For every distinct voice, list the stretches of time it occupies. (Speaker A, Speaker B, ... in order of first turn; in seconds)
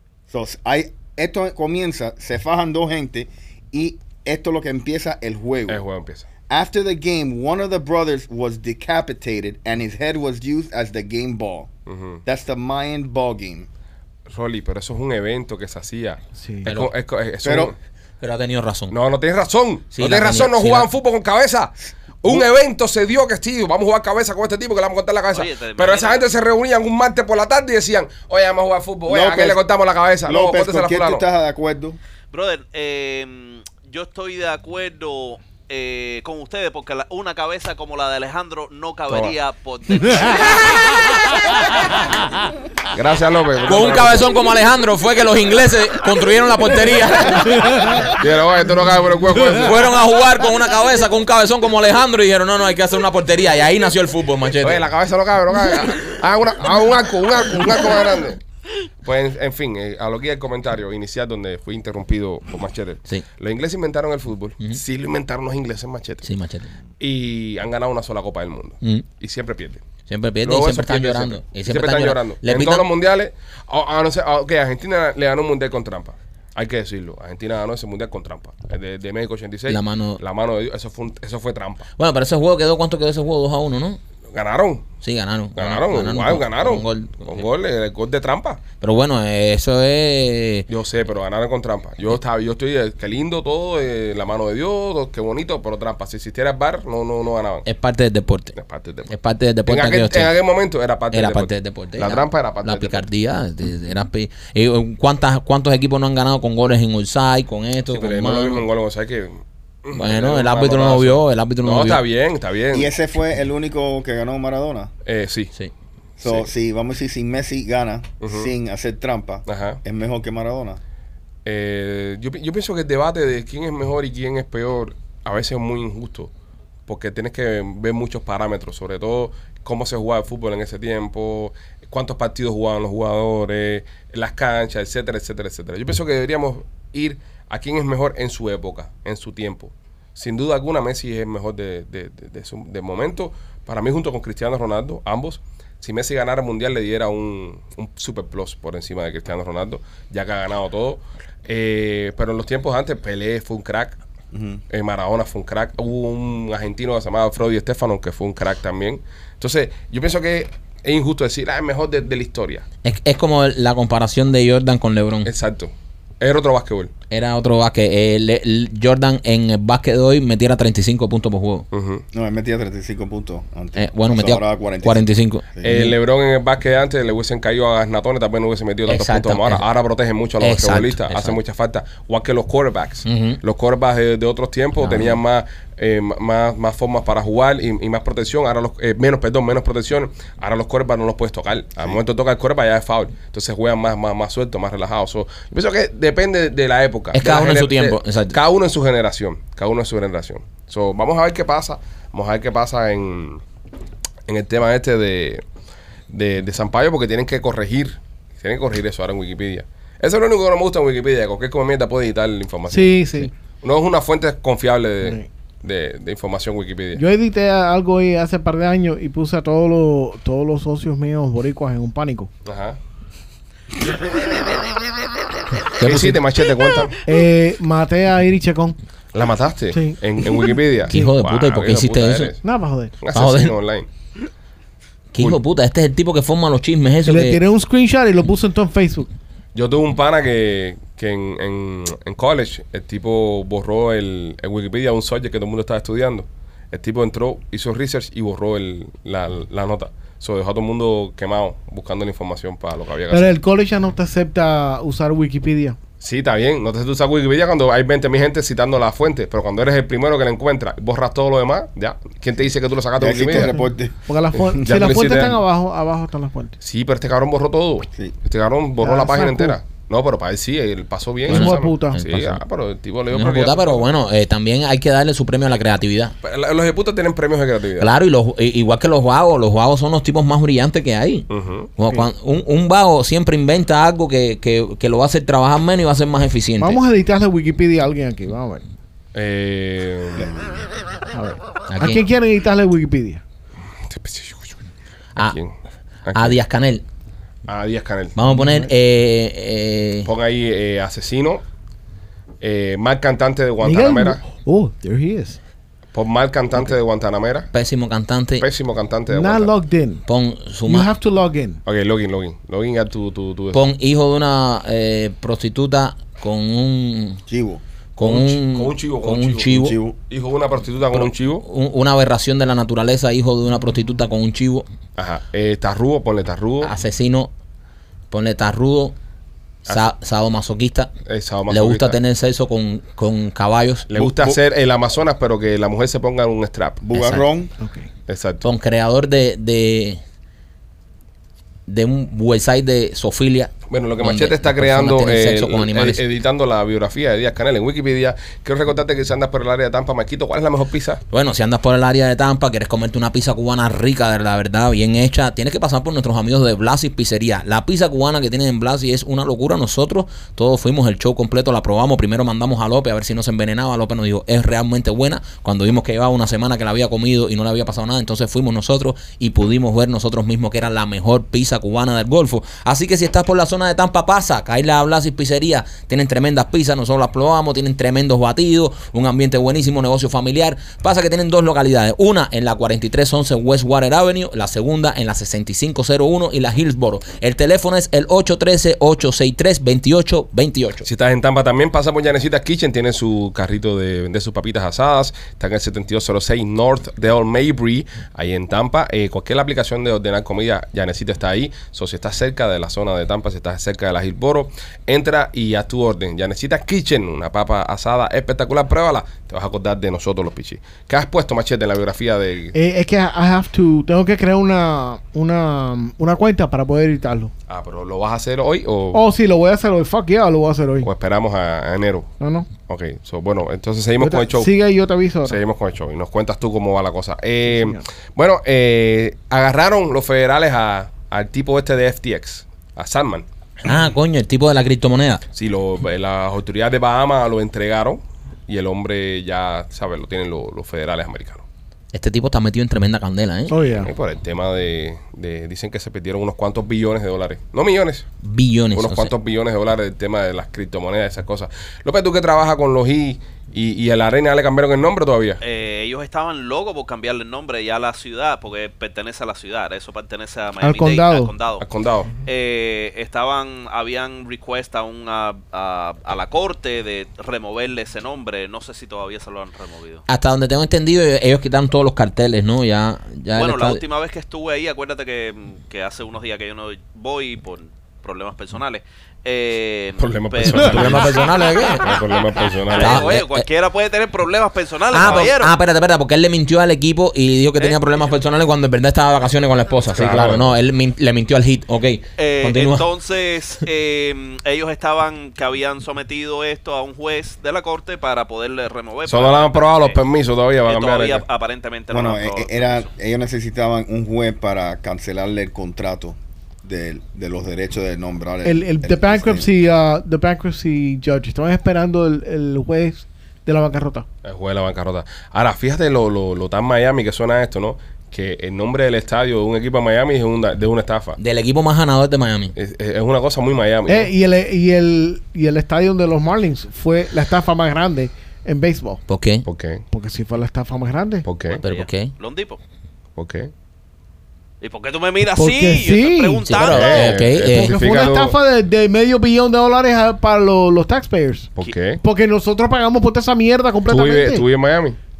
Speaker A: 0.3-5.8, 6.5-11.7, 12.2-13.7, 17.4-17.7, 29.1-29.6, 30.2-32.0, 112.7-114.9, 116.2-120.8, 154.3-154.6, 172.1-175.9, 263.0-264.7, 317.3-317.6, 319.6-319.9, 333.9-334.4, 336.8-337.5, 501.9-509.5
Speaker B: 5.7-6.3, 11.9-12.2, 14.3-17.7, 18.9-31.2, 39.1-39.4, 42.9-44.4, 48.0-50.0, 54.6-58.4, 59.0-66.3, 67.0-69.8, 70.4-81.9, 84.3-84.9, 85.5-88.6, 90.7-97.7, 98.5-99.1, 99.7-103.0, 107.8-112.9, 115.0-115.5, 116.2-116.5, 118.2-118.5, 119.5-119.8, 121.4-126.3, 126.9-154.0, 154.7-162.7, 165.2-166.9, 171.7-172.0, 175.6-203.4, 204.3-205.4, 206.1-213.0, 213.6-217.0, 222.4-222.8, 225.8-227.0, 229.1-232.4, 233.0-233.9, 239.5-253.3, 256.0-263.5, 264.6-265.4, 266.6-273.9, 276.2-277.9, 281.3-281.7, 289.1-290.4, 293.9-294.6, 295.2-295.5, 296.1-296.4, 297.5-298.2, 300.0-301.4, 302.4-304.2, 305.9-307.5, 308.4-309.5, 311.6-313.6, 318.0-321.4, 325.0-326.7, 331.1-332.0, 333.9-336.9, 338.1-338.4, 343.7-351.0, 390.8-412.5, 417.5-419.0, 420.8-424.5, 425.2-433.3, 435.3-441.4, 443.8-448.1, 448.7-455.4, 461.6-462.1, 480.0-483.1, 489.9-490.6, 499.1-501.2, 514.2-521.2, 522.5-524.1, 529.4-529.8, 531.2-531.6, 533.1-533.5, 536.6-538.3, 541.6-542.0, 543.9-545.0
Speaker C: 16.4-16.7, 47.6-48.0, 212.7-213.3, 215.0-215.3, 216.9-222.3, 227.1-228.8, 229.7-231.1, 232.4-233.0, 237.0-239.1, 253.1-255.8, 263.4-266.6, 268.8-269.6, 271.3-272.0, 286.6-288.6, 291.1-293.2, 298.3-298.7, 303.6-305.4, 309.1-310.1, 310.6-311.6, 337.6-337.9, 412.5-417.3, 418.9-420.9, 422.2-422.5, 424.0-425.4, 427.5-427.8, 443.5-443.9, 460.6-461.3, 508.4-514.0, 523.9-529.0, 529.9-531.2, 535.3-536.5, 537.4-544.4
Speaker D: 16.6-16.9, 18.2-18.9, 19.9-20.9, 43.6-47.8, 49.5-54.8, 66.2-66.7, 70.1-72.9, 79.7-80.2, 82.0-84.0, 85.0-87.4, 88.8-90.7, 97.6-98.5, 99.1-100.3, 101.1-108.6, 109.9-112.0, 162.8-165.3, 167.1-171.6, 173.8-175.9, 178.9-179.6, 180.4-181.4, 183.0-183.4, 184.8-185.2, 197.1-198.3, 225.7-226.2, 230.9-232.3, 233.1-233.6, 235.1-237.4, 271.3-272.4, 273.1-276.1, 277.8-286.8, 291.7-292.0, 296.1-296.8, 298.1-300.1, 307.5-308.4, 310.1-310.9, 313.5-317.2, 317.9-319.8, 320.9-324.6, 326.6-327.3, 328.1-328.9, 329.6-330.9, 331.5-333.9, 336.9-337.2, 338.4-340.0, 341.7-346.0, 351.1-390.9, 433.6-435.2, 441.9-443.6, 448.2-449.1, 470.1-473.8, 480.5-482.0, 482.7-483.4, 484.9-492.9, 521.2-522.5, 529.1-529.5, 531.6-532.1, 536.4-537.7
Speaker E: 25.3-26.3, 32.3-41.5, 455.4-461.6, 462.2-470.0, 473.3-481.5, 482.7-485.5, 492.2-500.0, 500.6-502.9, 531.5-532.6, 534.6-537.2